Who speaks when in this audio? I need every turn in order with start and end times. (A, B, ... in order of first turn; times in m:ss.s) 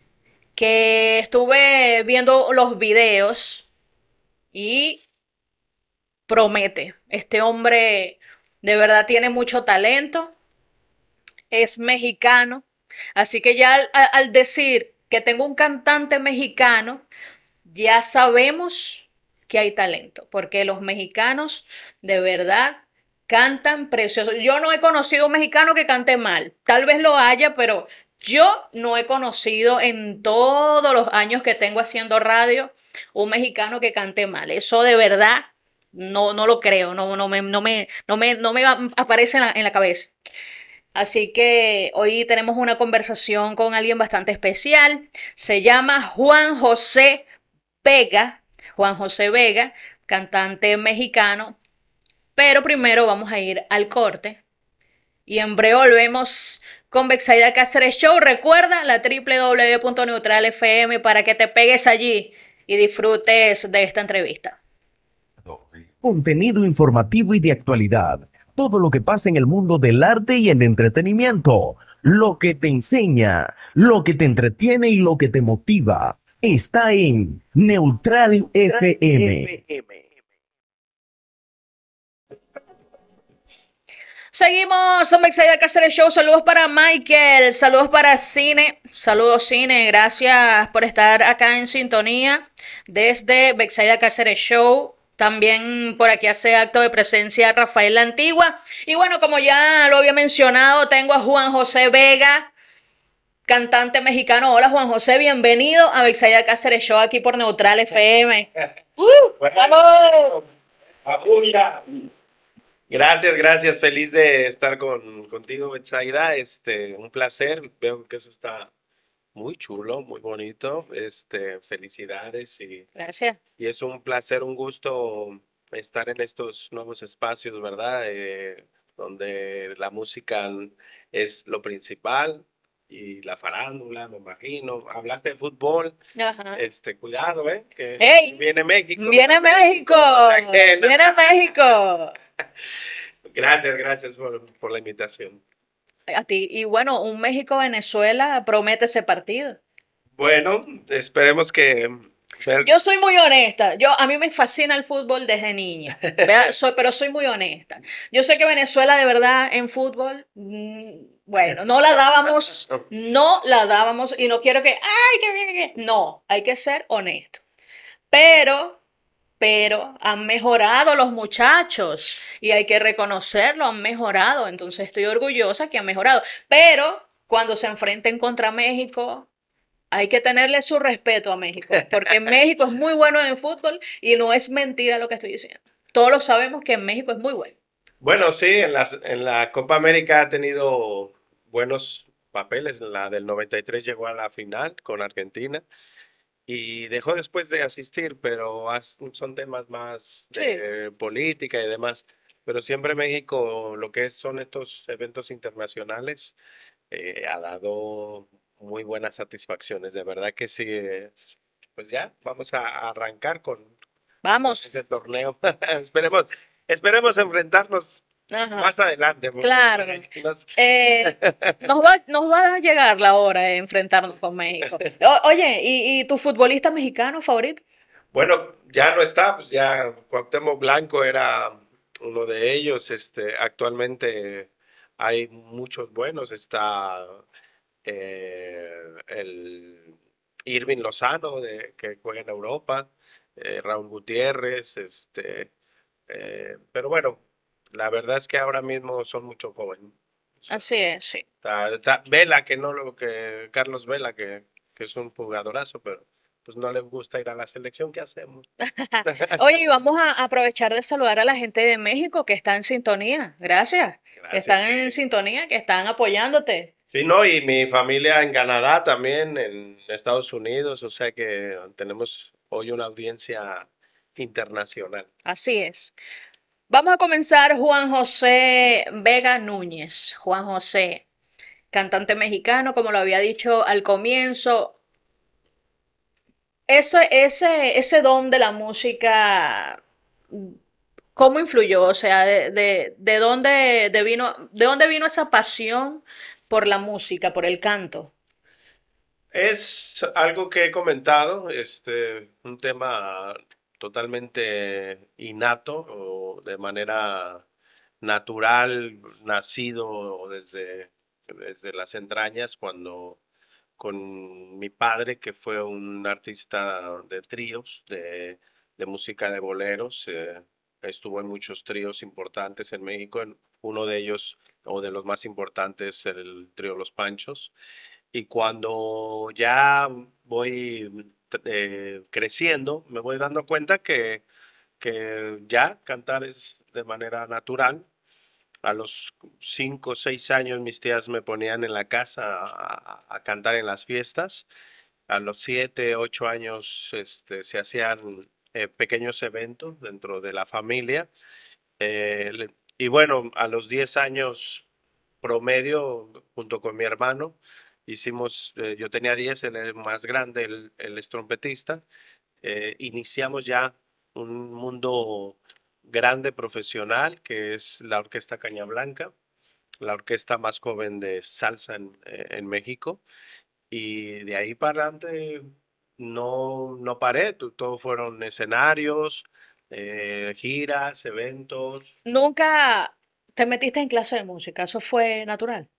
0:00.6-0:03.7 A
0:04.5-0:05.0 A
0:06.3-0:10.3 A
0:11.5-0:12.6 A
0:13.2-0:17.0 A
0:17.6-0:40.1 A
0:40.9-0:47.2 A
0:47.8-0:51.6 A
0:52.4-0:54.4 A
0:55.2-1:04.6 A
1:05.4-1:19.6 B
1:24.3-1:42.5 A
1:43.5-1:50.4 A
1:49.4-1:50.4 C
1:51.0-1:51.8 C
1:52.9-1:58.7 C
1:59.3-2:02.9 C
2:03.0-2:03.4 A
2:03.6-2:16.0 C
2:16.2-2:16.6 A
2:16.5-2:21.0 C
2:18.0-2:18.4 A
2:19.0-2:22.1 A
2:23.3-2:25.4 C
2:26.1-2:29.6 A
2:30.2-2:32.7 C
2:32.6-2:47.4 A
2:48.1-2:48.8 A
2:49.4-2:59.3 A
2:59.9-3:07.5 A
3:08.0-3:15.6 C
3:16.5-3:26.4 C
3:20.3-3:20.6 A
3:26.9-3:31.1 C
3:31.8-3:33.7 C
3:34.2-3:34.6 A
3:34.5-3:38.0 C
3:38.3-3:38.7 A
3:38.6-3:41.6 C
3:39.4-3:40.0 A
3:40.5-3:47.6 A
3:48.1-3:57.2 C
3:57.8-3:59.9 C
4:00.4-4:05.5 C
4:06.1-4:07.2 C
4:07.7-4:10.6 C
4:10.5-4:11.2 A
4:11.4-4:18.4 C
4:18.8-4:26.7 A
4:19.0-4:19.4 C
4:24.2-4:25.0 C
4:26.9-4:35.1 C
4:35.2-4:35.9 A
4:36.7-4:41.0 A
4:41.7-4:44.8 A
4:46.7-4:49.8 A
4:51.1-4:58.1 A
4:59.3-5:07.4 C
5:08.0-5:13.2 C
5:13.8-5:27.5 C
5:28.1-5:34.2 C
5:34.8-5:37.8 C
5:38.6-5:44.5 C
5:45.1-5:51.1 C
5:51.8-5:54.6 C
5:55.2-6:01.8 C
6:02.4-6:09.1 C
6:09.8-6:13.0 C
6:13.7-6:21.9 C
6:22.0-6:25.7 A